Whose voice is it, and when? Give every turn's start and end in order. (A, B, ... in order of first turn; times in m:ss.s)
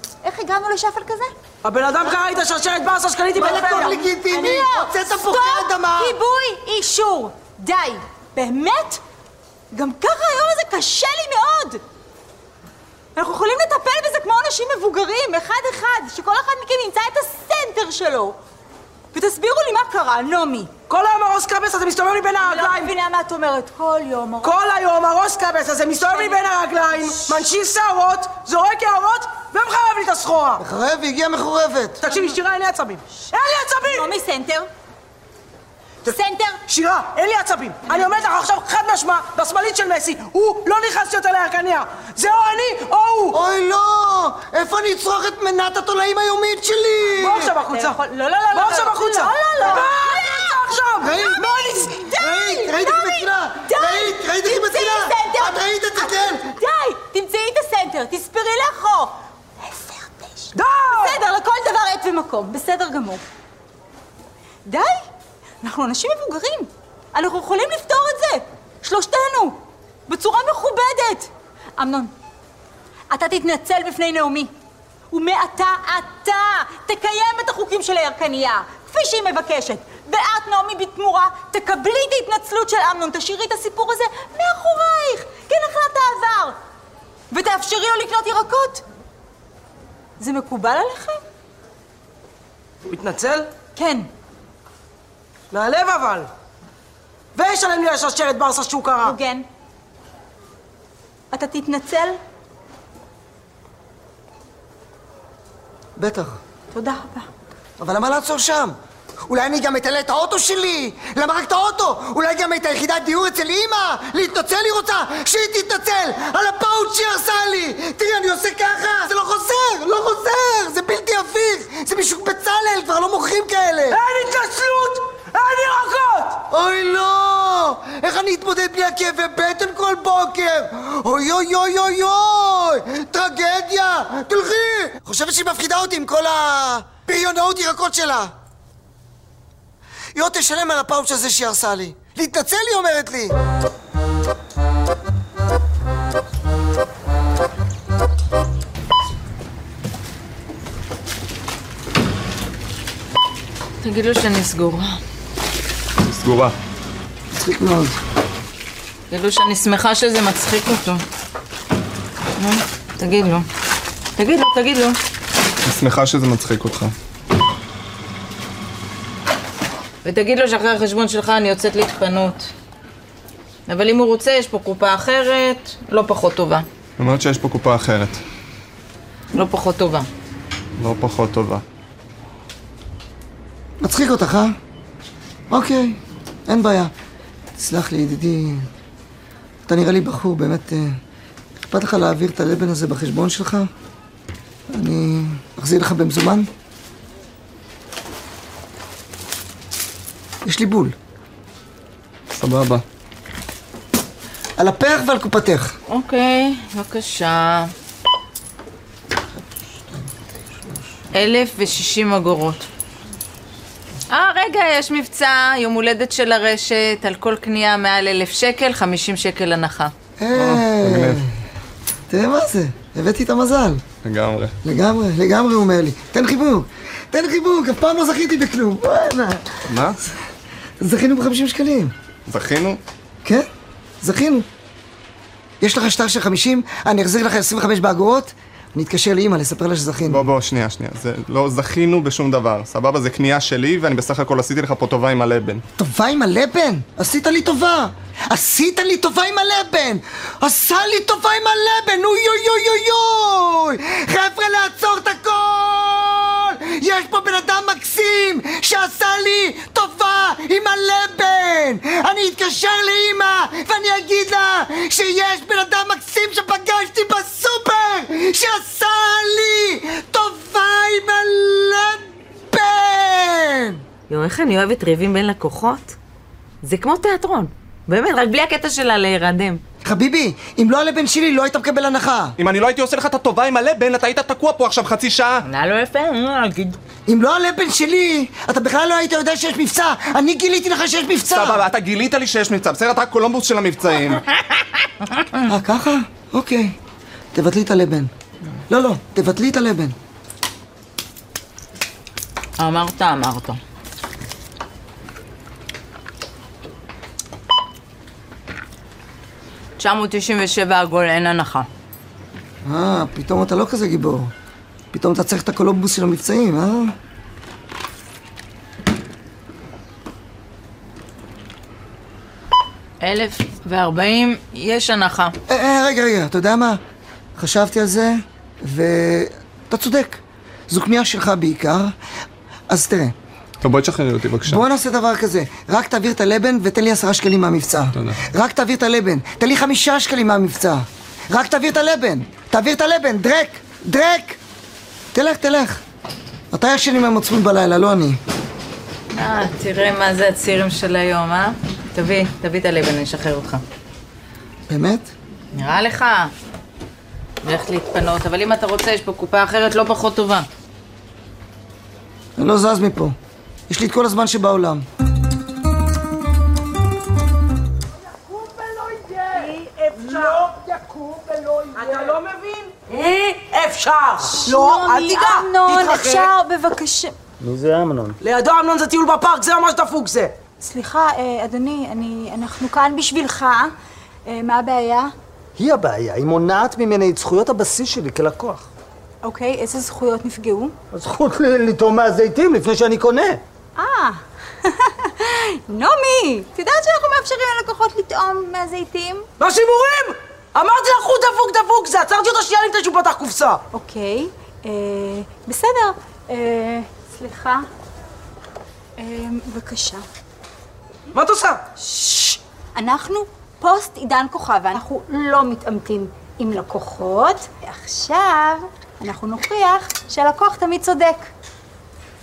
0:00.2-0:01.3 A
0:01.6-0:03.9 B
0:03.3-0:06.2 C
0:03.6-0:09.0 A
0:09.7-0:11.8 A
0:13.2-0:18.4 A
0:19.1-0:20.7 A
0:20.9-0:22.9 B
0:22.4-0:24.6 A
0:24.4-0:30.6 B
0:26.0-0:26.4 A
0:27.0-0:27.4 A
0:30.6-0:32.0 C
0:32.0-0:34.1 B
0:33.8-0:34.7 A
0:36.0-0:36.6 A
0:36.7-0:43.4 B
0:43.3-0:47.5 C
0:47.2-0:48.0 B
0:47.7-1:03.2 A
0:48.5-0:51.1 B
0:51.0-0:56.5 C
1:00.5-1:01.2 B
1:04.6-1:05.0 A
1:05.6-1:12.1 A
1:13.1-1:14.5 A
1:15.1-1:26.6 A
1:27.3-1:28.8 A
1:30.2-1:31.2 A
1:32.8-1:33.5 B
1:33.7-1:34.1 A
1:35.5-1:36.3 B
1:37.3-1:39.2 B
1:39.0-1:39.4 A
1:41.3-1:42.2 A
1:46.0-1:46.4 C
1:46.7-1:47.3 A
1:47.8-1:48.8 C
1:49.3-2:04.0 C
2:03.9-2:06.4 B
2:06.5-2:18.3 C
2:20.1-2:23.4 C
2:33.8-2:35.0 D
2:36.0-2:36.5 E
2:37.3-2:38.0 C
2:39.1-2:41.0 D
2:42.4-2:43.5 D
2:44.2-2:45.0 D
2:45.6-2:46.9 E
2:50.0-2:52.5 D
2:53.7-2:56.6 D
2:57.0-2:58.2 E
2:59.3-3:00.1 D
3:00.8-3:01.6 E
3:03.8-3:04.5 C
3:05.5-3:06.9 C
3:07.6-3:08.7 C
3:09.7-3:11.0 C
3:11.7-3:13.7 C
3:14.7-3:16.5 C
3:20.4-3:20.9 C
3:22.3-3:22.8 E
3:24.6-3:25.7 C
3:25.9-3:27.7 D
3:31.1-3:32.6 D
3:34.1-3:39.9 D
3:40.2-3:41.3 C
3:40.3-3:41.2 E
3:42.1-3:43.8 C
3:44.0-3:44.6 E
3:44.6-3:49.6 C
3:49.7-3:50.0 E
3:50.8-3:51.9 C
3:52.3-3:52.8 E
3:54.0-3:54.4 C
3:55.6-4:00.2 C
4:00.1-4:05.6 E
4:05.8-4:33.8 C
4:34.1-4:35.9 D
4:36.6-4:39.6 D
4:39.8-4:42.3 C
4:42.4-4:45.4 E
4:45.5-4:46.8 D
4:47.1-4:51.6 C
4:51.3-4:54.2 E
4:55.5-4:56.8 C
4:57.3-4:58.1 C
4:58.7-4:59.9 C
5:02.6-5:03.6 D
5:09.8-5:11.7 D
5:12.6-5:14.3 C
5:14.9-5:16.9 C
5:23.0-5:25.3 D
5:25.5-5:26.8 C
5:27.4-5:31.9 C
5:32.7-5:33.1 C
5:33.6-5:34.6 E
5:34.4-5:44.4 C
5:45.1-5:45.8 C
5:46.5-5:48.2 C
5:49.1-5:53.6 D
5:54.7-5:55.1 C
5:55.5-5:56.3 D
5:57.4-6:00.5 D
6:02.4-6:03.2 C
6:03.7-6:04.8 C
6:09.1-6:10.5 B
6:11.7-6:16.3 B
6:14.2-6:17.1 A
6:18.2-6:20.4 B
6:20.6-6:23.7 A
6:24.3-6:25.1 A
6:25.6-6:28.6 F
6:29.2-6:30.8 A
6:31.0-6:33.4 F
6:33.8-6:39.2 A
6:39.4-6:43.6 B
6:43.7-6:47.7 A
6:49.0-6:50.0 A
6:51.1-6:51.6 B
6:51.8-7:01.3 A